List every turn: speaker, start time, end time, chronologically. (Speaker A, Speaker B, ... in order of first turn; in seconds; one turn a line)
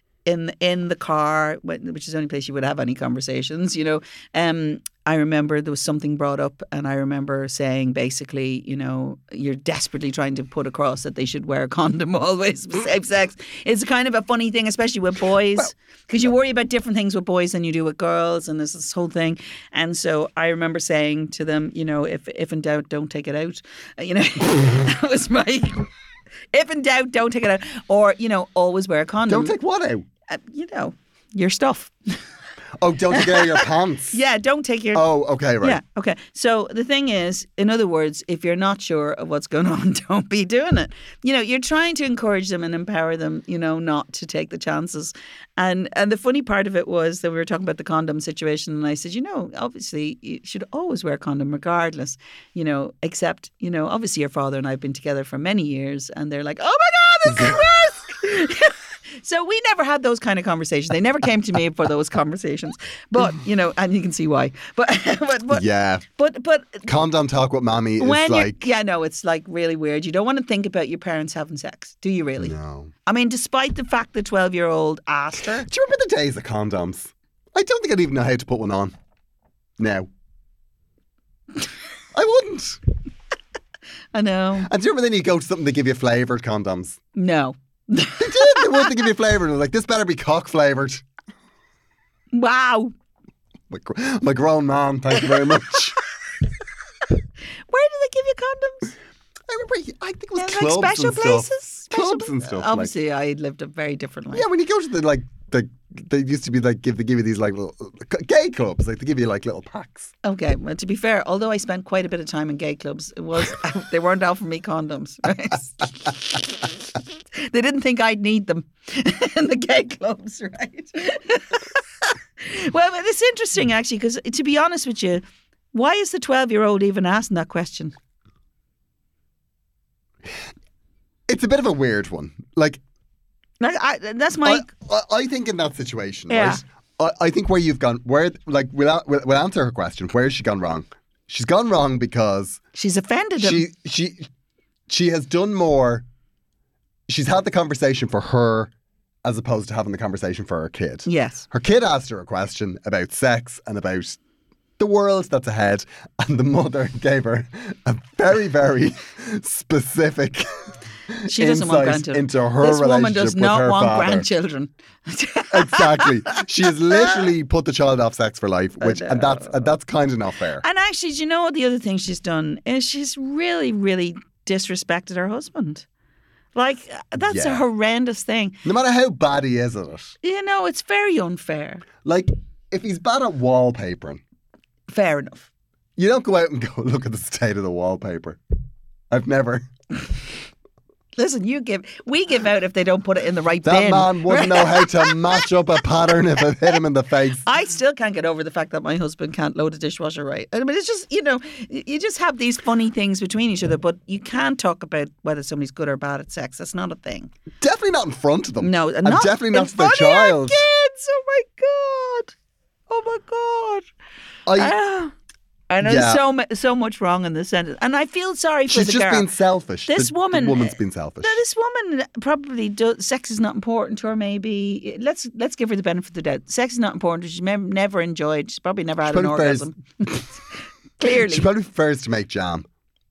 Speaker A: 0.2-25.9
Speaker A: 26.5-29.5
Speaker B: 29.3-30.0
Speaker A: 30.3-31.9
Speaker B: 32.8-34.2
Speaker A: 33.1-35.0
Speaker B: 34.9-35.8
Speaker A: 35.6-66.9
Speaker B: 57.3-57.6
Speaker B: 65.5-66.0
Speaker B: 66.8-68.6
Speaker A: 68.0-72.5
Speaker B: 72.4-72.9
Speaker A: 73.0-75.7
Speaker B: 75.4-78.9
Speaker B: 79.8-80.1
Speaker B: 82.1-82.8
Speaker A: 84.1-84.7
Speaker B: 84.6-87.0
Speaker A: 87.1-89.0
Speaker B: 88.2-91.0
Speaker A: 92.3-92.9
Speaker B: 93.7-96.0
Speaker A: 97.7-98.9
Speaker B: 99.5-102.9
Speaker A: 100.4-104.5
Speaker B: 104.3-110.1
Speaker A: 110.2-116.7
Speaker A: 117.3-127.9
Speaker B: 131.3-132.8
Speaker A: 133.6-134.7
Speaker B: 134.4-142.6
Speaker A: 136.3-136.6
Speaker A: 142.7-143.6
Speaker B: 143.4-144.3
Speaker B: 144.9-146.0
Speaker B: 147.1-148.7
Speaker B: 149.2-154.2
Speaker A: 151.1-151.4
Speaker B: 154.8-164.3
Speaker A: 161.3-167.3
Speaker B: 165.5-170.6
Speaker A: 168.8-169.7
Speaker A: 170.6-175.8
Speaker A: 176.5-178.6
Speaker B: 177.2-177.6
Speaker B: 178.6-180.1
Speaker A: 180.2-181.8
Speaker B: 182.0-184.2
Speaker A: 184.9-185.5
Speaker B: 186.0-188.4
Speaker B: 189.1-189.7
Speaker A: 191.1-195.6
Speaker B: 193.6-197.4
Speaker A: 196.4-196.8
Speaker A: 197.4-207.3
Speaker B: 207.6-210.7
Speaker A: 208.6-212.3
Speaker A: 212.9-213.8
Speaker B: 214.4-214.8
Speaker A: 214.5-215.1
Speaker A: 215.7-219.3
Speaker B: 215.8-216.2
Speaker B: 218.7-221.4
Speaker A: 219.8-230.3
Speaker B: 229.0-230.3
Speaker A: 231.0-231.5
Speaker B: 231.0-232.7